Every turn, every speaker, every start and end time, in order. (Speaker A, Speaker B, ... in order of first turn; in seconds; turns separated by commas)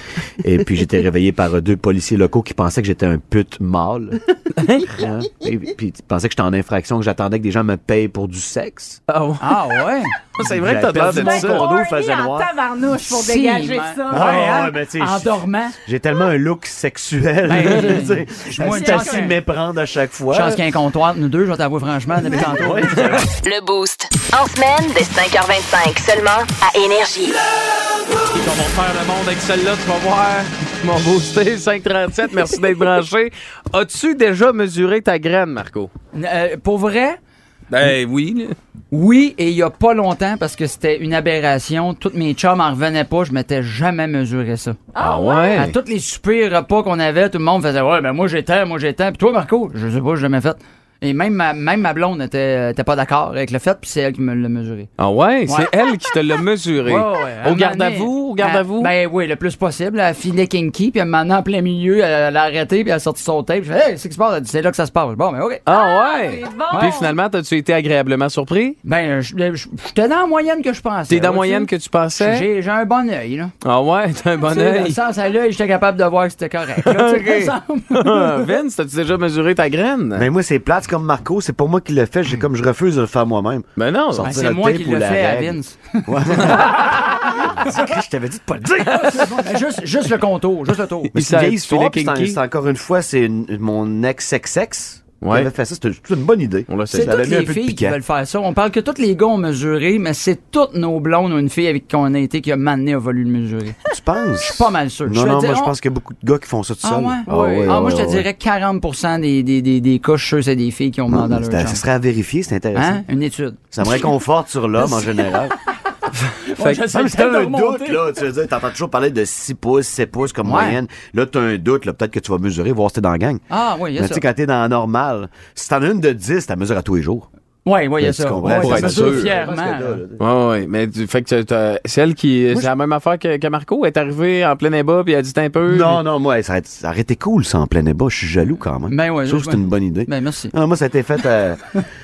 Speaker A: 0.4-4.2, Speaker B: 4.6-4.9, Speaker A: 4.9-9.0, Speaker B: 9.1-9.7, Speaker C: 9.4-10.1, Speaker B: 10.4-11.7, Speaker A: 10.4-12.5, Speaker D: 11.1-14.8, Speaker C: 13.1-15.8, Speaker A: 14.1-20.6, Speaker C: 17.5-19.4, Speaker D: 18.6-19.4, Speaker C: 20.3-23.2, Speaker A: 22.3-23.3, Speaker E: 23.4-27.4, Speaker B: 28.3-35.9, Speaker C: 36.1-37.2, Speaker B: 37.7-38.6, Speaker C: 38.9-44.8, Speaker D: 44.9-45.6, Speaker B: 45.0-45.7, Speaker C: 45.5-54.9, Speaker B: 55.0-58.9, Speaker C: 56.9-65.6, Speaker B: 65.7-68.8, Speaker D: 65.7-67.2, Speaker C: 66.7-67.0, Speaker C: 68.8-73.5, Speaker B: 71.1-72.5, Speaker B: 73.6-75.0, Speaker C: 74.5-78.5, Speaker B: 76.8-80.3, Speaker A: 80.2-89.4, Speaker B: 83.8-84.3, Speaker C: 84.2-86.6, Speaker C: 88.9-91.1, Speaker B: 91.1-92.4, Speaker A: 91.1-98.0, Speaker B: 95.2-95.5, Speaker B: 96.7-97.4, Speaker C: 96.9-103.8, Speaker A: 103.9-108.3, Speaker C: 104.4-105.8, Speaker C: 106.8-111.8, Speaker B: 107.3-107.7, Speaker A: 111.1-113.0, Speaker C: 112.8-113.7, Speaker A: 113.7-115.5, Speaker B: 116.2-116.9, Speaker C: 116.5-118.1, Speaker A: 116.8-123.4, Speaker C: 120.4-120.8, Speaker C: 123.5-124.2, Speaker A: 123.9-127.3, Speaker C: 127.7-130.0, Speaker A: 128.0-130.2, Speaker B: 128.6-129.3, Speaker B: 130.2-136.0, Speaker A: 135.7-141.8, Speaker C: 138.9-140.5